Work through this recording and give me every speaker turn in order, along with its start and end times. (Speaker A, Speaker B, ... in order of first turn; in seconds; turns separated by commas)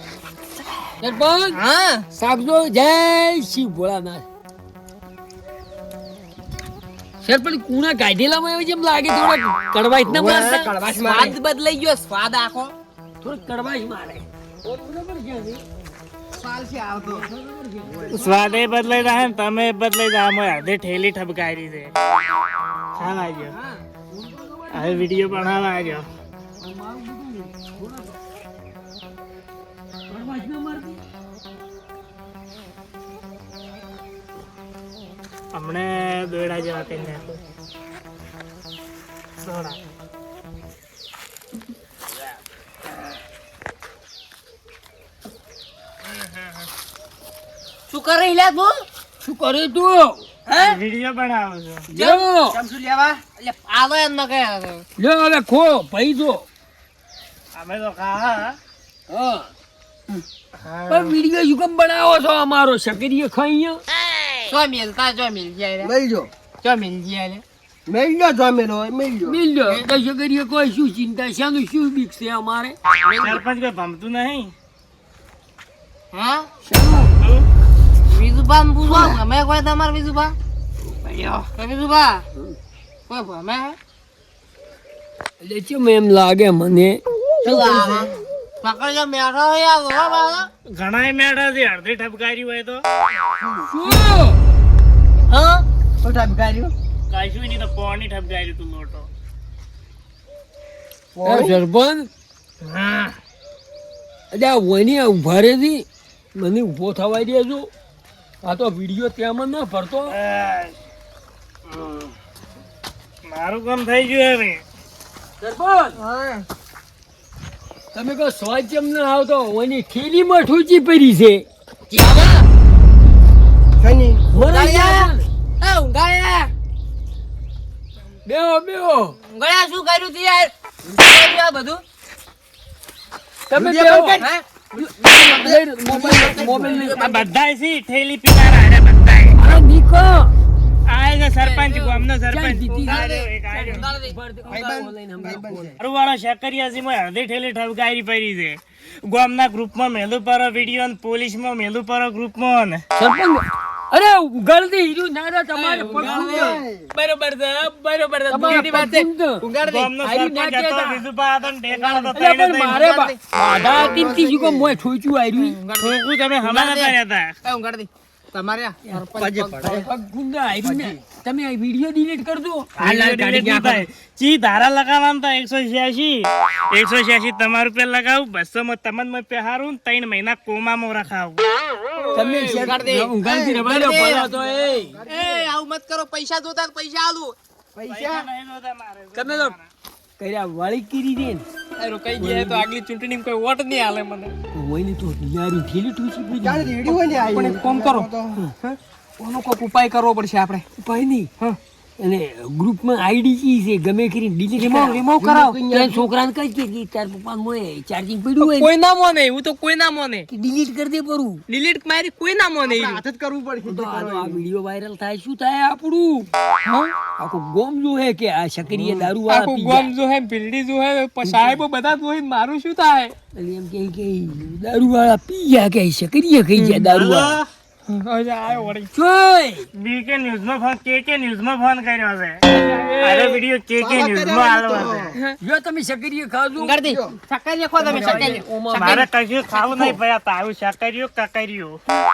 Speaker A: 1.0-1.6, Speaker B: 1.5-2.0, Speaker A: 2.1-4.2, Speaker A: 7.2-10.7, Speaker C: 10.1-11.4, Speaker B: 10.2-12.7, Speaker A: 13.2-15.6, Speaker C: 16.4-17.2, Speaker A: 17.0-18.5, Speaker C: 17.9-18.3, Speaker D: 18.1-21.9, Speaker D: 22.9-23.6, Speaker B: 23.5-23.8, Speaker A: 24.1-25.7, Speaker D: 24.7-26.1, Speaker A: 26.6-28.2, Speaker A: 30.1-31.0, Speaker D: 35.5-37.4, Speaker D: 39.4-39.8, Speaker B: 47.9-48.8, Speaker A: 49.2-50.2, Speaker B: 50.5-50.8, Speaker D: 50.6-51.9, Speaker A: 51.9-52.6, Speaker B: 52.0-52.2, Speaker C: 52.5-53.2, Speaker B: 53.2-54.8, Speaker A: 55.0-56.5, Speaker D: 57.5-58.6, Speaker A: 59.1-59.5, Speaker D: 60.6-61.1, Speaker A: 60.9-63.8, Speaker B: 64.5-65.9, Speaker C: 65.8-66.3, Speaker B: 66.6-67.4, Speaker C: 67.9-69.4, Speaker A: 69.2-72.8, Speaker B: 73.0-73.4, Speaker D: 73.2-74.5, Speaker B: 76.1-76.5, Speaker A: 76.7-77.1, Speaker D: 77.2-77.5, Speaker B: 78.1-80.3, Speaker B: 81.0-82.2, Speaker B: 83.1-83.8, Speaker A: 85.4-87.0, Speaker C: 87.4-88.1, Speaker B: 87.4-90.5, Speaker D: 90.7-92.8, Speaker C: 93.4-94.0, Speaker A: 93.7-94.4, Speaker B: 95.3-95.6, Speaker C: 96.0-96.7, Speaker D: 97.1-99.1, Speaker C: 101.2-101.6, Speaker A: 101.2-102.1, Speaker D: 102.6-103.1, Speaker A: 104.3-107.7, Speaker A: 108.4-110.2, Speaker D: 110.1-110.8, Speaker D: 111.7-112.0, Speaker D: 113.2-114.6, Speaker A: 115.4-116.0, Speaker B: 116.0-116.4, Speaker A: 117.9-121.4, Speaker B: 121.9-122.5, Speaker C: 123.8-124.2, Speaker A: 124.3-125.2, Speaker B: 124.3-126.5, Speaker A: 128.2-129.2, Speaker B: 129.3-131.8, Speaker A: 133.5-134.2, Speaker C: 133.5-136.9, Speaker B: 134.2-134.4, Speaker A: 134.7-137.0, Speaker B: 136.1-137.3, Speaker D: 136.9-139.4, Speaker A: 139.3-140.3, Speaker D: 140.9-143.9, Speaker B: 141.4-142.1, Speaker A: 142.3-145.8, Speaker B: 142.7-144.8, Speaker C: 144.4-145.8, Speaker D: 145.8-152.8, Speaker A: 152.9-156.6, Speaker B: 155.5-163.2, Speaker C: 155.9-156.9, Speaker A: 158.3-159.4, Speaker D: 158.5-158.8, Speaker D: 159.6-162.8, Speaker A: 160.0-161.0, Speaker A: 162.1-165.6, Speaker C: 163.6-164.8, Speaker B: 165.3-169.8, Speaker D: 165.8-167.3, Speaker C: 169.1-169.9, Speaker A: 169.7-172.7, Speaker C: 170.6-171.0, Speaker D: 172.8-181.5, Speaker B: 172.8-173.9, Speaker B: 182.0-184.3, Speaker A: 182.1-185.0, Speaker C: 183.2-185.5, Speaker B: 185.0-187.3, Speaker C: 187.7-188.3, Speaker D: 187.9-189.7, Speaker A: 189.1-189.6, Speaker A: 190.2-191.4, Speaker B: 191.8-194.3, Speaker A: 192.2-192.7, Speaker A: 194.5-196.8, Speaker C: 196.3-198.4, Speaker B: 196.8-200.6, Speaker A: 200.8-201.3, Speaker A: 202.0-205.0, Speaker B: 204.5-205.6, Speaker C: 205.2-206.1, Speaker A: 205.7-208.7, Speaker B: 208.4-210.3, Speaker A: 210.3-211.4, Speaker B: 211.5-213.0, Speaker C: 212.6-214.4, Speaker A: 213.6-216.3, Speaker B: 216.6-216.9, Speaker A: 217.2-219.9, Speaker C: 218.7-219.1, Speaker B: 219.3-223.1, Speaker A: 221.2-221.6, Speaker A: 223.3-227.4, Speaker B: 226.6-226.9, Speaker D: 226.9-227.5, Speaker B: 227.9-228.9, Speaker A: 228.9-229.7, Speaker D: 229.7-232.4, Speaker B: 232.5-233.4, Speaker D: 233.0-235.1, Speaker C: 233.8-235.2, Speaker A: 235.4-236.8, Speaker B: 236.6-240.0, Speaker C: 236.8-237.2, Speaker C: 237.8-238.4, Speaker A: 237.8-239.0, Speaker D: 238.7-241.8